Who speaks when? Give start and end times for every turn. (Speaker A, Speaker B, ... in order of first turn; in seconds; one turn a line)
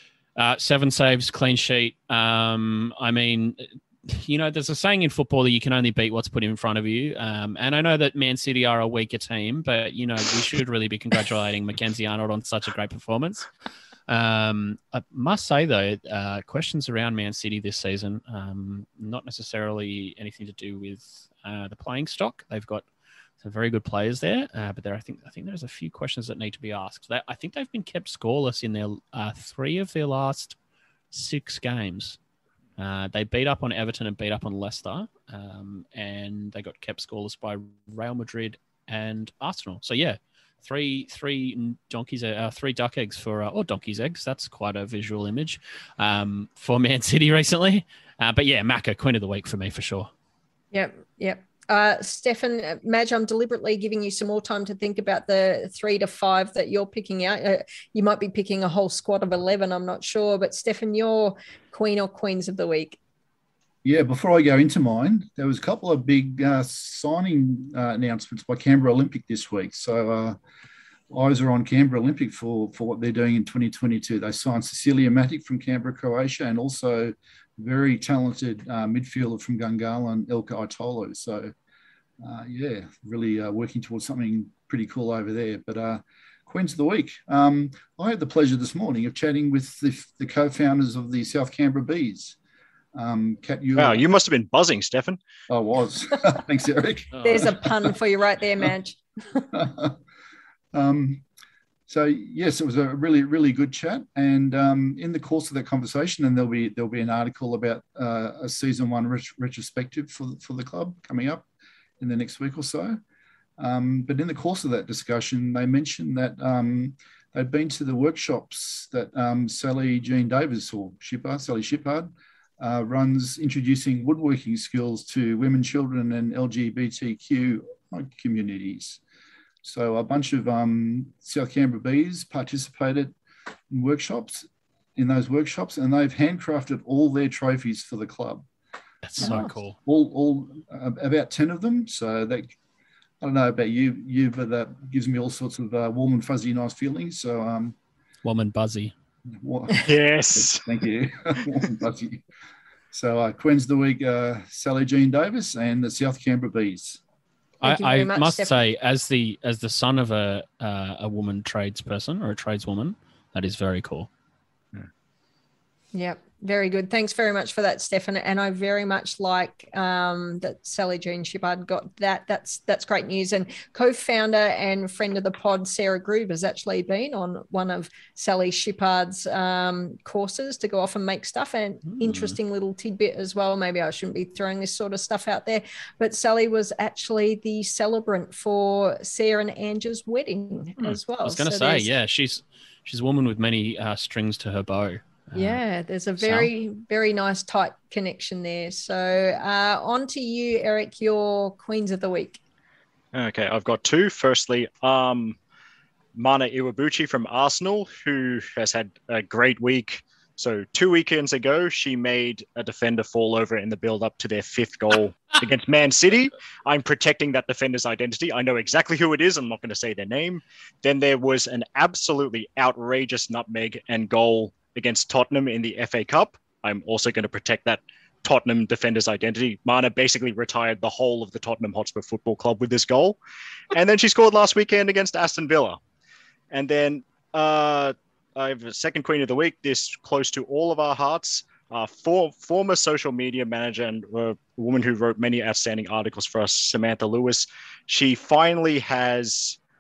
Speaker A: 0.4-13.5
Speaker A: 14.1-22.9
Speaker A: 23.4-30.6
Speaker A: 31.1-32.2
Speaker A: 32.8-50.1
Speaker B: 50.7-63.0
Speaker C: 63.8-70.4
Speaker C: 71.1-81.5
Speaker C: 82.2-92.4
Speaker C: 93.0-94.0
Speaker D: 93.8-95.2
Speaker C: 95.5-97.5
Speaker B: 97.2-99.0
Speaker C: 99.5-100.0
Speaker C: 100.7-101.2
Speaker C: 101.9-111.5
Speaker C: 112.0-113.0
Speaker C: 113.6-129.0
Speaker C: 129.6-133.2
Speaker C: 133.7-138.4
Speaker A: 139.0-139.8
Speaker C: 139.2-142.6
Speaker C: 143.2-147.8
Speaker A: 148.2-148.9
Speaker C: 149.4-152.2
Speaker D: 149.8-150.7
Speaker C: 152.9-157.0
Speaker A: 157.6-164.1
Speaker B: 157.6-158.6
Speaker B: 165.9-191.9
Speaker A: 181.9-182.3
Speaker A: 190.8-195.6
Speaker B: 195.3-202.4
Speaker A: 196.2-196.5
Speaker D: 203.1-205.4
Speaker D: 206.2-233.2
Speaker D: 233.7-235.8
Speaker D: 236.5-249.6